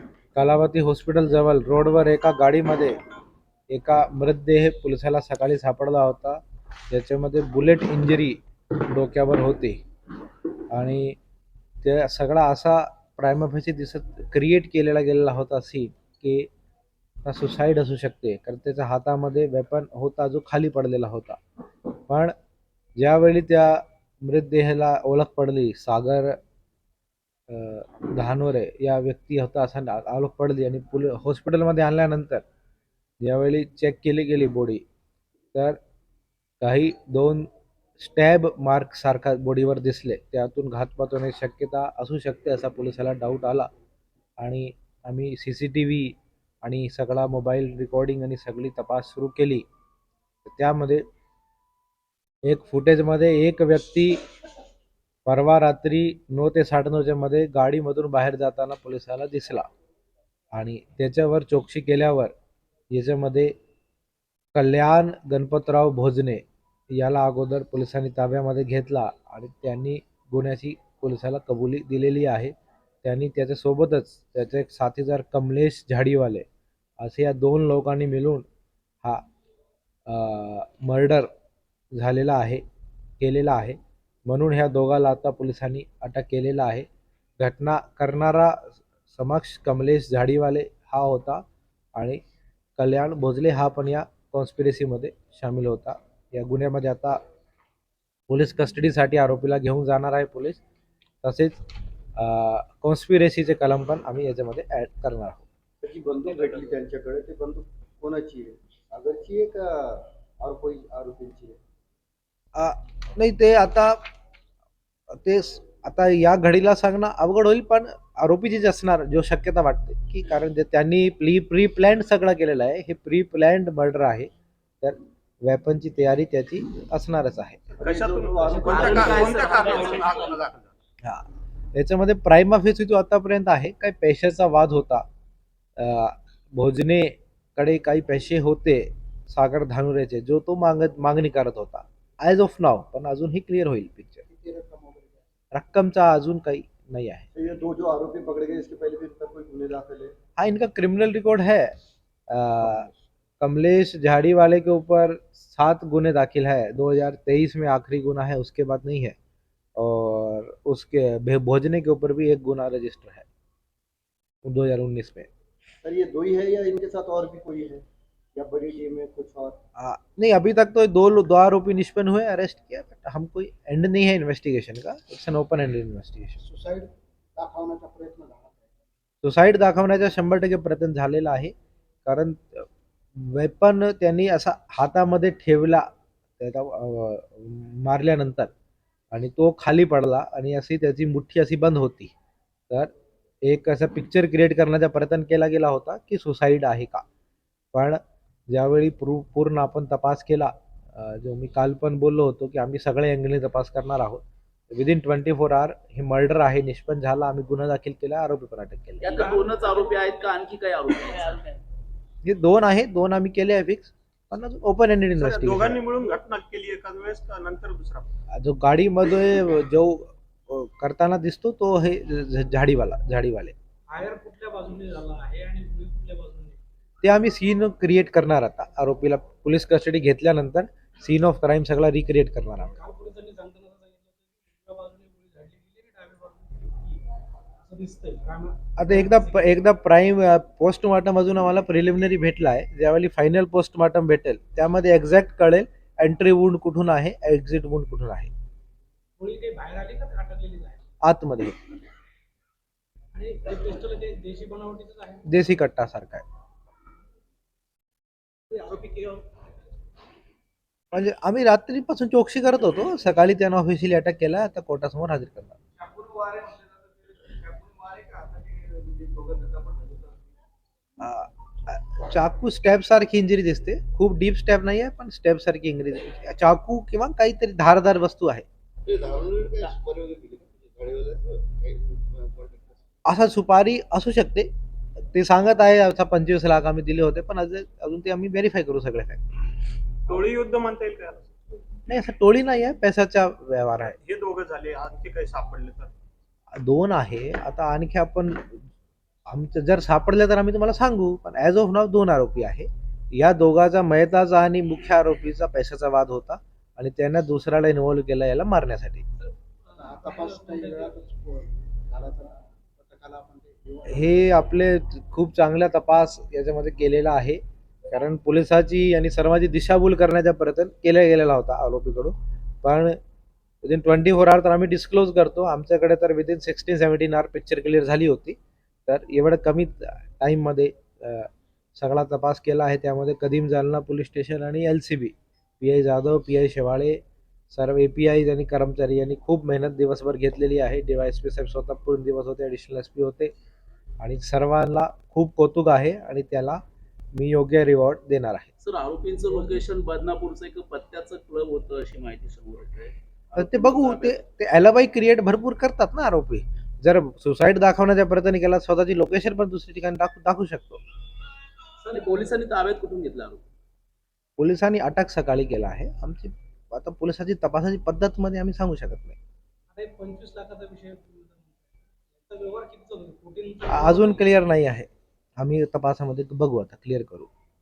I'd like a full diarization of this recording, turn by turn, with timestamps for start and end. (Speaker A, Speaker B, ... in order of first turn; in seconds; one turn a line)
Speaker A: 0.3-3.0
Speaker A: 3.7-9.8
Speaker A: 10.7-11.2
Speaker A: 11.8-16.5
Speaker A: 17.2-21.4
Speaker A: 22.1-22.3
Speaker A: 23.0-26.4
Speaker A: 27.5-32.5
Speaker A: 33.2-34.8
Speaker A: 36.6-37.5
Speaker A: 38.0-43.7
Speaker A: 44.4-49.6
Speaker A: 50.5-51.0
Speaker A: 52.5-54.2
Speaker A: 55.3-59.7
Speaker A: 60.5-62.3
Speaker A: 62.9-63.5
Speaker A: 64.5-76.5
Speaker A: 77.0-78.5
Speaker A: 80.1-81.3
Speaker A: 82.0-82.6
Speaker A: 83.2-86.9
Speaker A: 87.4-91.4
Speaker A: 92.8-97.2
Speaker A: 98.3-100.6
Speaker A: 101.2-101.6
Speaker A: 102.2-105.5
Speaker B: 105.8-111.6
Speaker C: 106.2-106.7
Speaker A: 112.6-114.0
Speaker A: 115.1-127.6
Speaker B: 127.8-129.4
Speaker C: 127.8-130.8
Speaker D: 128.6-130.4
Speaker E: 128.6-129.0
Speaker A: 131.0-135.1
Speaker A: 135.8-144.2
Speaker B: 144.3-145.1
Speaker A: 145.5-147.3
Speaker B: 147.3-150.1
Speaker A: 150.4-151.7
Speaker A: 152.3-152.9
Speaker A: 153.4-159.2
Speaker A: 159.8-163.2
Speaker A: 164.4-165.3
Speaker B: 165.8-169.6
Speaker A: 169.8-176.4
Speaker B: 176.4-178.6
Speaker A: 179.2-181.5
Speaker A: 182.1-185.9
Speaker A: 186.4-188.5
Speaker A: 189.1-192.1
Speaker A: 193.4-197.0
Speaker A: 197.7-209.2
Speaker D: 209.0-211.6
Speaker E: 209.1-211.4
Speaker A: 212.2-215.8
Speaker C: 215.2-218.1
Speaker A: 218.3-223.6
Speaker E: 223.9-226.6
Speaker A: 227.0-232.8
Speaker E: 232.7-237.1
Speaker E: 237.6-239.6
Speaker A: 238.8-248.3
Speaker E: 249.2-250.8
Speaker A: 251.0-251.6
Speaker E: 253.1-255.3
Speaker A: 255.2-256.2
Speaker E: 258.5-259.5
Speaker A: 260.9-265.6
Speaker B: 265.8-270.3
Speaker A: 271.0-278.4
Speaker B: 278.9-282.7
Speaker A: 283.1-289.2
Speaker C: 290.1-291.2
Speaker A: 291.9-293.9
Speaker C: 293.8-295.9
Speaker A: 296.5-298.6
Speaker A: 299.3-309.0
Speaker E: 309.2-311.0
Speaker B: 309.8-314.1
Speaker A: 313.9-323.0
Speaker A: 323.6-343.3
Speaker A: 344.0-346.6
Speaker A: 347.1-348.5
Speaker D: 348.6-354.2
Speaker A: 353.4-360.8
Speaker E: 361.8-362.4
Speaker D: 361.9-363.4
Speaker A: 364.4-369.2
Speaker E: 369.7-374.3
Speaker A: 373.7-377.3